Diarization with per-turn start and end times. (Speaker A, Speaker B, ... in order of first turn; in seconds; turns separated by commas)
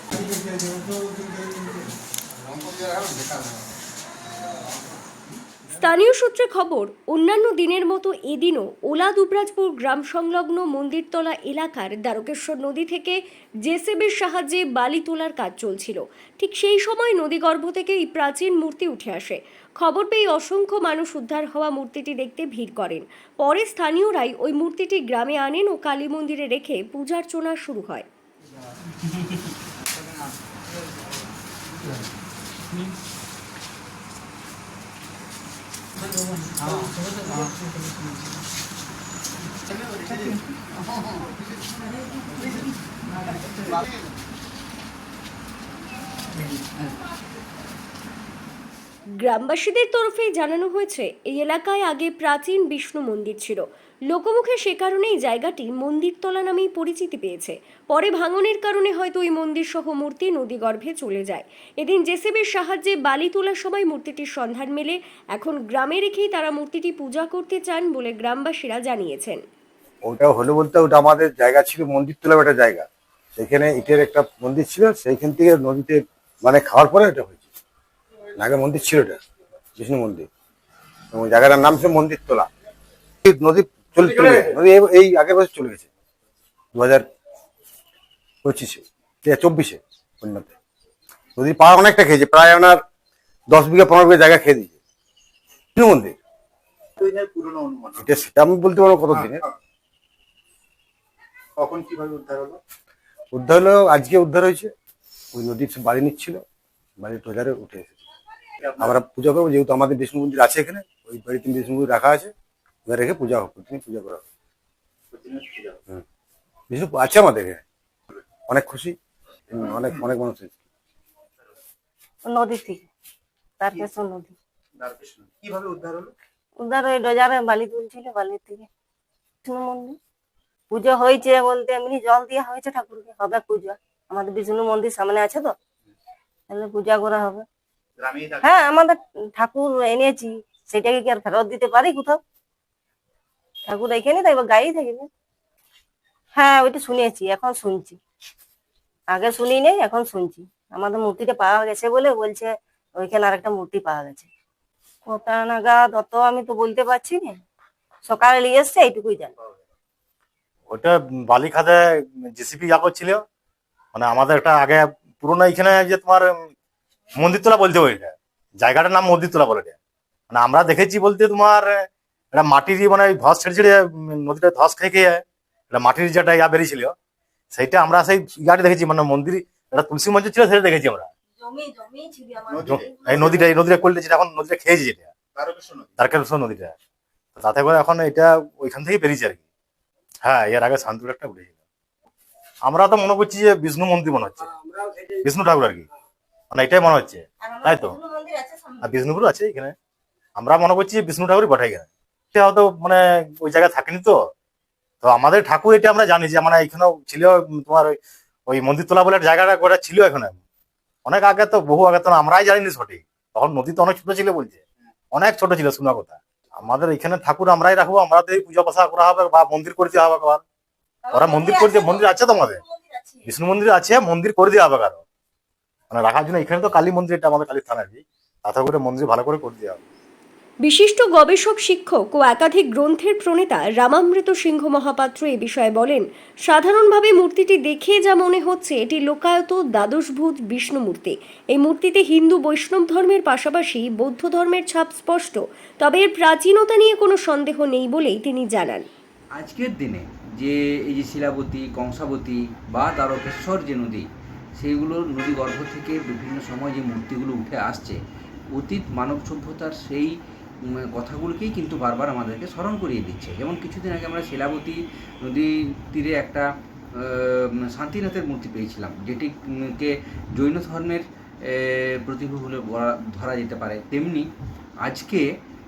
Speaker A: 5.7-28.1, Speaker A: 49.2-69.4, Speaker B: 70.0-77.4, Speaker B: 78.4-79.2, Speaker B: 79.8-80.3, Speaker B: 81.1-82.5, Speaker B: 83.2-85.9, Speaker B: 86.7-87.1, Speaker B: 88.4-90.5, Speaker B: 91.4-92.8, Speaker B: 93.5-94.8, Speaker B: 95.8-96.2, Speaker C: 97.0-98.0, Speaker B: 98.0-99.5, Speaker C: 101.6-102.6, Speaker B: 103.3-104.7, Speaker B: 105.3-106.4, Speaker B: 107.0-107.9, Speaker B: 108.8-112.3, Speaker B: 112.9-114.2, Speaker C: 115.2-115.7, Speaker B: 116.7-117.6, Speaker B: 118.5-119.0, Speaker B: 119.5-120.5, Speaker D: 122.3-122.9, Speaker D: 123.6-124.4, Speaker C: 124.8-126.1, Speaker D: 126.6-128.7, Speaker D: 129.4-130.0, Speaker D: 130.7-135.5, Speaker D: 136.5-137.5, Speaker D: 138.4-142.2, Speaker D: 143.7-145.1, Speaker D: 146.4-148.0, Speaker D: 149.1-154.3, Speaker D: 155.1-157.4, Speaker D: 158.1-159.3, Speaker E: 160.7-163.2, Speaker E: 163.9-166.4, Speaker E: 167.2-169.8, Speaker E: 170.3-176.9, Speaker E: 177.5-181.1, Speaker D: 181.4-182.8, Speaker E: 182.7-185.1, Speaker E: 186.0-186.7, Speaker E: 187.4-189.4, Speaker E: 190.2-191.5, Speaker E: 192.7-194.5, Speaker B: 194.5-195.2, Speaker E: 195.2-195.9, Speaker E: 196.5-198.0, Speaker D: 197.4-198.8, Speaker E: 198.8-199.7, Speaker E: 200.4-204.2, Speaker E: 205.0-210.4, Speaker E: 211.1-214.6, Speaker E: 215.1-220.4, Speaker E: 221.1-222.6, Speaker E: 223.3-225.0, Speaker E: 225.9-229.8, Speaker A: 230.6-248.9, Speaker F: 249.4-258.0, Speaker F: 258.5-260.1, Speaker F: 260.9-266.5, Speaker F: 267.0-274.3, Speaker F: 274.8-275.3